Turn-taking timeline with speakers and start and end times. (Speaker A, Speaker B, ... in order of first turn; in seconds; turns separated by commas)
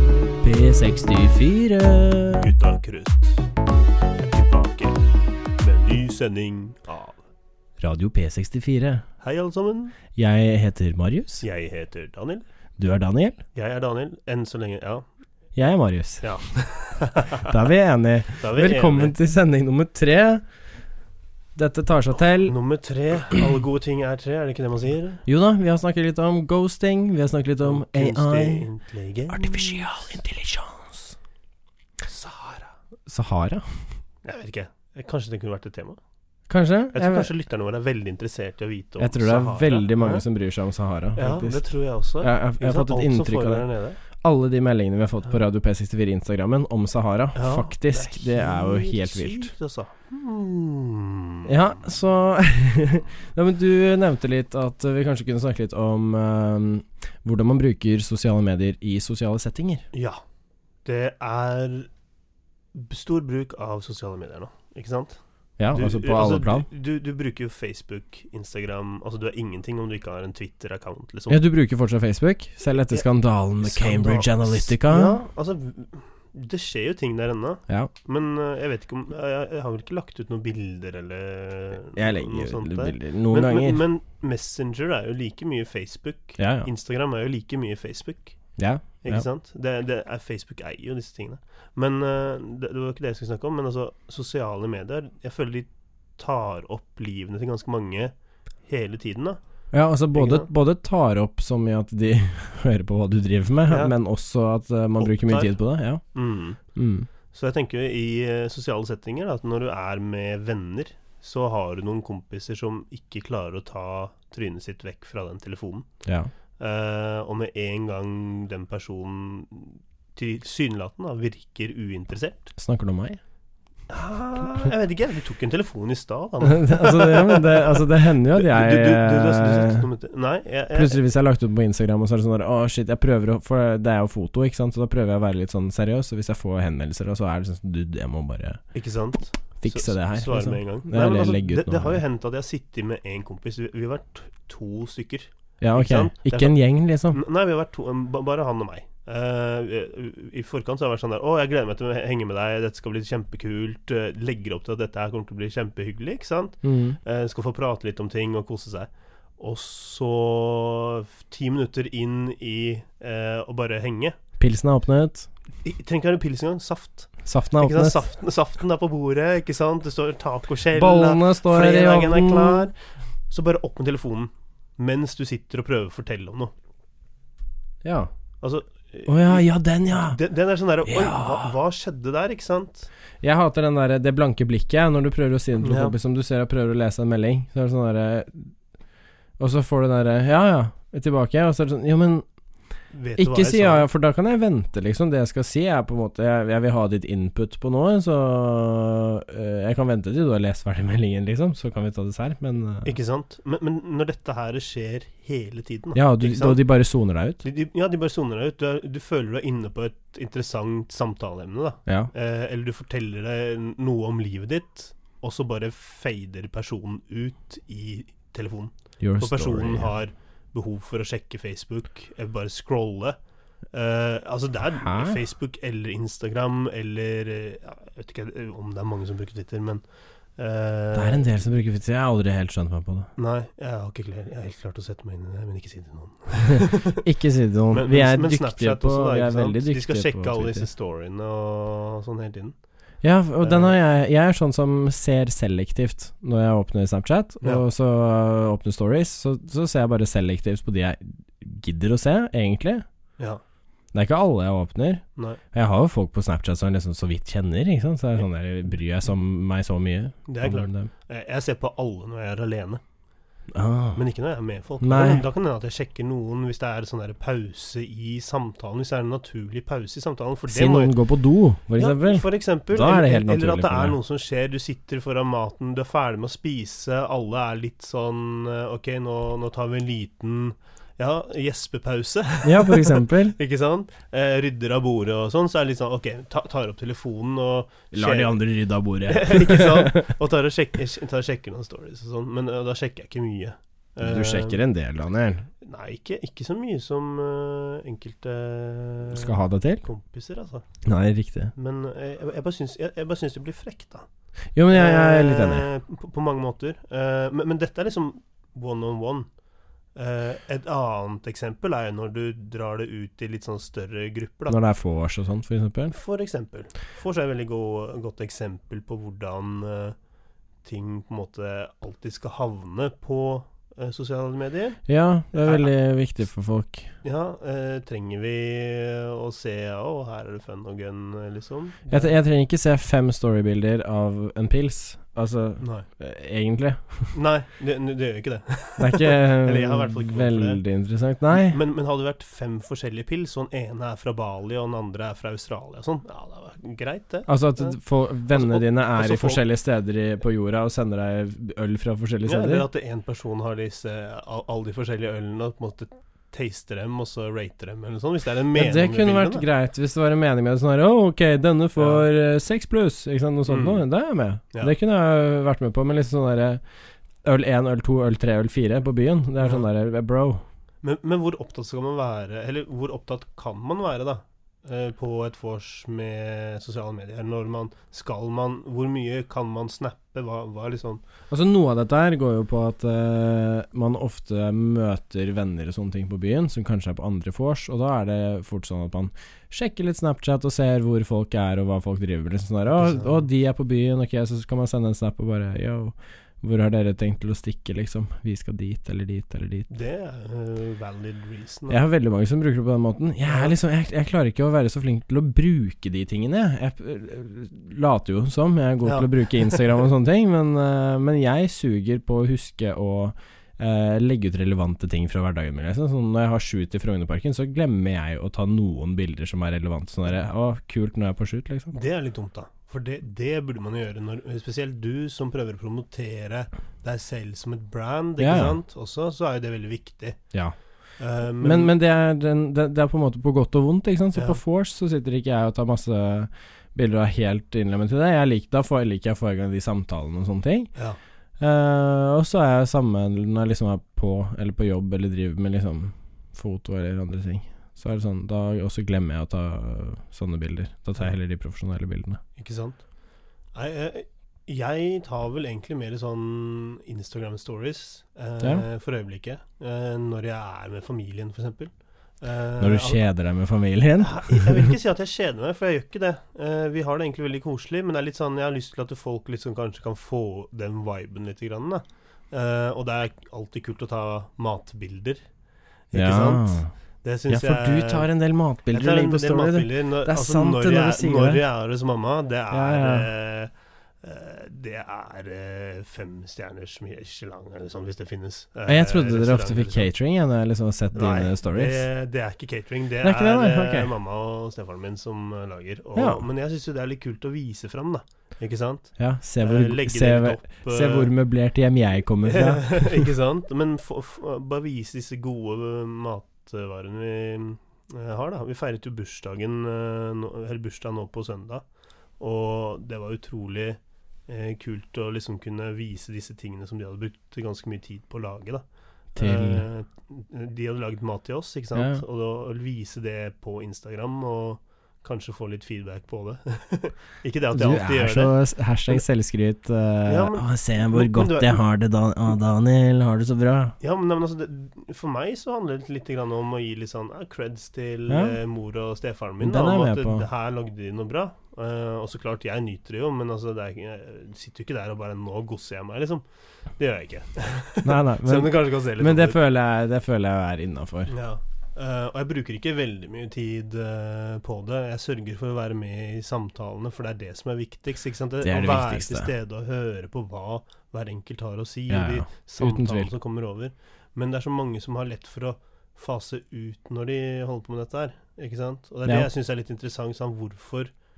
Speaker A: 0.4-2.5, Speaker B: 2.4-3.4, Speaker B: 4.2-5.0, Speaker B: 5.6-7.2, Speaker A: 7.8-9.0, Speaker B: 9.2-9.9, Speaker A: 10.1-11.4, Speaker B: 11.4-12.4, Speaker A: 12.8-13.4, Speaker B: 13.5-15.1, Speaker A: 15.5-16.3, Speaker B: 16.2-17.5, Speaker A: 17.4-20.4, Speaker B: 18.4-19.1, Speaker A: 21.5-22.5, Speaker B: 22.4-25.2, Speaker A: 25.2-28.7, Speaker B: 27.6-30.2, Speaker A: 29.3-31.1, Speaker B: 32.0-32.7, Speaker A: 33.0-33.8, Speaker B: 34.2-36.0, Speaker A: 36.5-37.3, Speaker B: 36.9-40.2, Speaker A: 39.0-41.6, Speaker B: 41.1-44.0, Speaker A: 42.2-49.5, Speaker B: 47.3-51.5, Speaker A: 51.5-59.8, Speaker B: 59.9-60.2, Speaker B: 60.8-61.9, Speaker B: 62.7-65.2, Speaker A: 65.6-66.7, Speaker B: 65.7-71.4, Speaker A: 71.3-75.2, Speaker B: 73.6-88.4, Speaker A: 82.0-83.8, Speaker A: 86.4-86.7, Speaker A: 88.6-89.2, Speaker B: 89.0-98.1, Speaker B: 98.6-99.4, Speaker A: 99.7-106.0, Speaker B: 100.1-100.5, Speaker B: 103.7-103.9, Speaker B: 105.0-105.5, Speaker B: 106.1-106.6, Speaker A: 106.7-107.1, Speaker B: 107.3-115.9, Speaker A: 116.0-116.3, Speaker B: 116.6-122.5, Speaker A: 122.5-123.2, Speaker B: 123.9-131.0, Speaker A: 126.4-129.9, Speaker A: 130.7-138.6, Speaker B: 138.7-146.6, Speaker A: 139.6-142.0, Speaker A: 145.6-147.2, Speaker B: 147.1-164.2, Speaker A: 156.6-157.0, Speaker A: 164.4-165.3, Speaker B: 165.6-172.7, Speaker A: 167.2-168.0, Speaker A: 170.7-172.7, Speaker B: 173.3-176.5, Speaker A: 177.8-178.1, Speaker B: 178.4-182.9, Speaker A: 179.1-180.2, Speaker A: 180.9-181.5, Speaker A: 183.2-188.5, Speaker B: 185.6-185.9, Speaker A: 189.4-192.2, Speaker B: 192.9-193.9, Speaker A: 193.2-202.9, Speaker B: 202.8-206.6, Speaker A: 205.9-207.4, Speaker B: 207.4-223.2, Speaker A: 211.8-212.1, Speaker A: 219.0-219.9, Speaker B: 223.7-229.8, Speaker A: 224.8-225.2, Speaker B: 230.3-231.2, Speaker A: 230.9-233.1, Speaker B: 233.2-237.0, Speaker A: 236.5-240.7, Speaker B: 237.7-242.6, Speaker A: 243.0-252.8, Speaker B: 243.4-243.8, Speaker A: 253.9-260.9, Speaker B: 260.3-262.8, Speaker A: 263.5-264.0, Speaker B: 263.9-270.9, Speaker A: 264.8-265.2, Speaker A: 270.5-274.0, Speaker B: 271.7-288.4, Speaker A: 282.4-283.4, Speaker A: 287.9-290.1, Speaker B: 289.1-294.6, Speaker A: 294.0-295.5, Speaker B: 295.6-300.7, Speaker A: 299.1-299.9, Speaker A: 300.8-301.5, Speaker B: 301.5-304.1, Speaker A: 304.5-305.7, Speaker B: 304.7-309.3, Speaker B: 309.9-314.6, Speaker A: 314.5-315.9, Speaker B: 315.9-319.9, Speaker B: 320.6-324.8, Speaker A: 324.9-326.9, Speaker B: 325.3-325.7, Speaker B: 327.0-332.1, Speaker A: 331.9-337.1, Speaker B: 335.6-335.9, Speaker B: 337.1-340.6, Speaker A: 338.8-341.6, Speaker B: 341.3-347.8, Speaker A: 347.3-352.6, Speaker B: 348.3-349.4, Speaker B: 352.2-359.4, Speaker A: 358.5-366.6, Speaker B: 361.8-362.1, Speaker B: 363.5-363.8, Speaker A: 367.2-370.4, Speaker B: 369.4-369.6, Speaker B: 370.8-381.0, Speaker A: 381.3-399.7, Speaker B: 392.7-393.3, Speaker B: 399.7-401.8, Speaker A: 401.7-421.7, Speaker B: 403.2-403.5, Speaker B: 408.8-409.7, Speaker B: 421.7-430.2, Speaker A: 428.2-428.6, Speaker B: 431.0-431.7, Speaker A: 431.4-440.7, Speaker B: 434.1-434.4, Speaker A: 441.4-452.2, Speaker B: 452.4-452.8, Speaker B: 453.5-463.0, Speaker A: 462.6-464.7, Speaker B: 464.0-475.2, Speaker B: 475.9-478.1, Speaker A: 475.9-476.7, Speaker A: 477.3-481.4, Speaker B: 478.7-483.5, Speaker A: 482.5-483.1, Speaker B: 484.0-489.9, Speaker A: 488.6-491.9, Speaker B: 490.9-501.1, Speaker A: 493.0-493.9, Speaker A: 495.9-496.2, Speaker A: 499.0-503.1, Speaker B: 502.2-511.6, Speaker B: 512.2-529.0, Speaker A: 519.1-519.6, Speaker A: 521.7-522.0, Speaker A: 527.5-533.8, Speaker B: 530.0-531.6, Speaker B: 533.8-546.2, Speaker A: 538.1-538.4, Speaker A: 539.4-540.2, Speaker B: 546.8-549.4, Speaker A: 547.8-551.1, Speaker B: 551.1-570.9, Speaker A: 558.4-559.3, Speaker A: 561.9-563.1